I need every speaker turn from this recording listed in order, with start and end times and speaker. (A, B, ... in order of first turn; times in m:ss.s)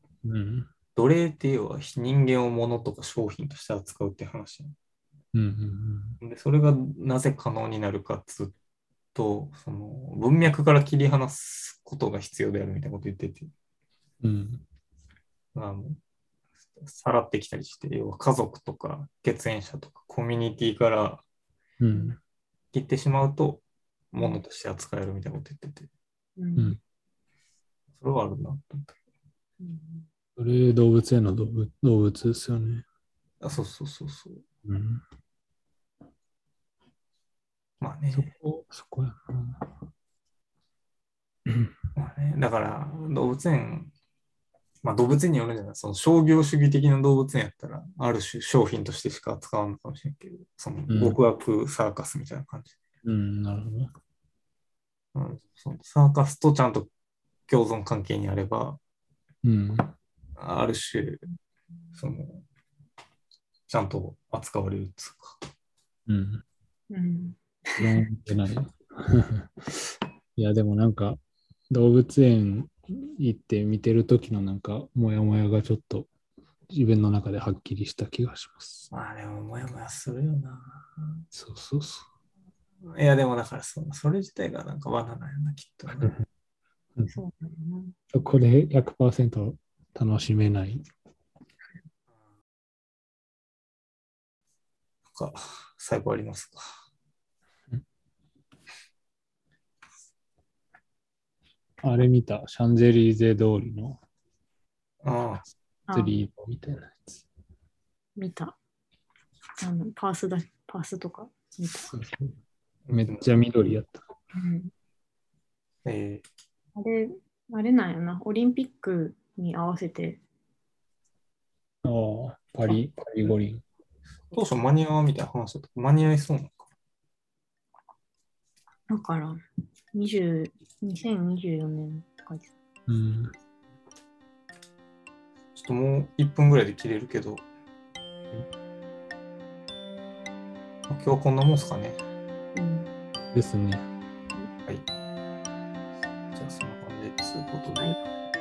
0:00.2-0:00.7 A
0:00.9-0:04.7 B
0:05.3-0:06.2 A
0:06.2-0:08.5 B
0:09.1-0:13.5 B
0:14.2-0:14.6 A
0:15.5-0:16.0 B
0:16.8-0:21.2 B
0:21.8-0:22.2 A
0:22.7-0:25.9 B
0:24.2-0:24.4 C
0:26.4-0:26.8 C
0:28.0-0:29.0 B
0:29.6-0:30.1 C
0:30.4-0:32.8 A
0:33.4-0:34.4 B
0:34.6-0:35.0 A
0:37.8-0:38.3 B
0:38.1-0:39.7 A
0:41.5-0:41.7 A
0:41.9-0:43.9 B
0:44.8-0:52.8 B
0:50.9-0:51.2 A
0:53.0-0:53.9 A
0:55.1-0:56.9 B
0:57.5-0:58.8 B
0:59.4-0:59.9 A
1:00.4-1:01.2 B
1:01.9-1:02.4 B
1:03.7-1:05.4 B
1:06.1-1:06.4 A
1:06.9-1:08.0 C
1:07.8-1:11.2 A
1:11.7-1:16.1 A
1:16.7-1:18.9 A
1:18.9-1:21.2 B
1:21.3-1:22.1 A
1:22.8-1:26.1 B
1:26.0-1:26.2 A
1:27.1-1:28.0 C
1:28.1-1:30.8 A
1:35.1-1:36.8 B
1:41.8-1:44.0 A
1:45.0-1:45.5 B
1:45.9-1:46.1 C
1:45.9-1:47.2 A
1:48.2-1:48.6 C
1:49.6-1:51.9 C
1:51.8-1:52.4 A
1:52.9-1:53.2 B
1:52.9-1:54.0 A
1:54.3-1:54.7 C
1:55.8-1:56.2 B
1:56.8-2:00.2 C
2:01.8-2:03.6 A
2:04.3-2:06.6 B
2:08.9-2:09.4 C
2:09.9-2:12.5 C
2:12.9-2:13.3 A
2:15.6-2:17.4 B
2:20.9-2:22.0 B
2:22.5-2:22.9 C
2:23.3-2:23.8 A
2:26.3-2:28.0 B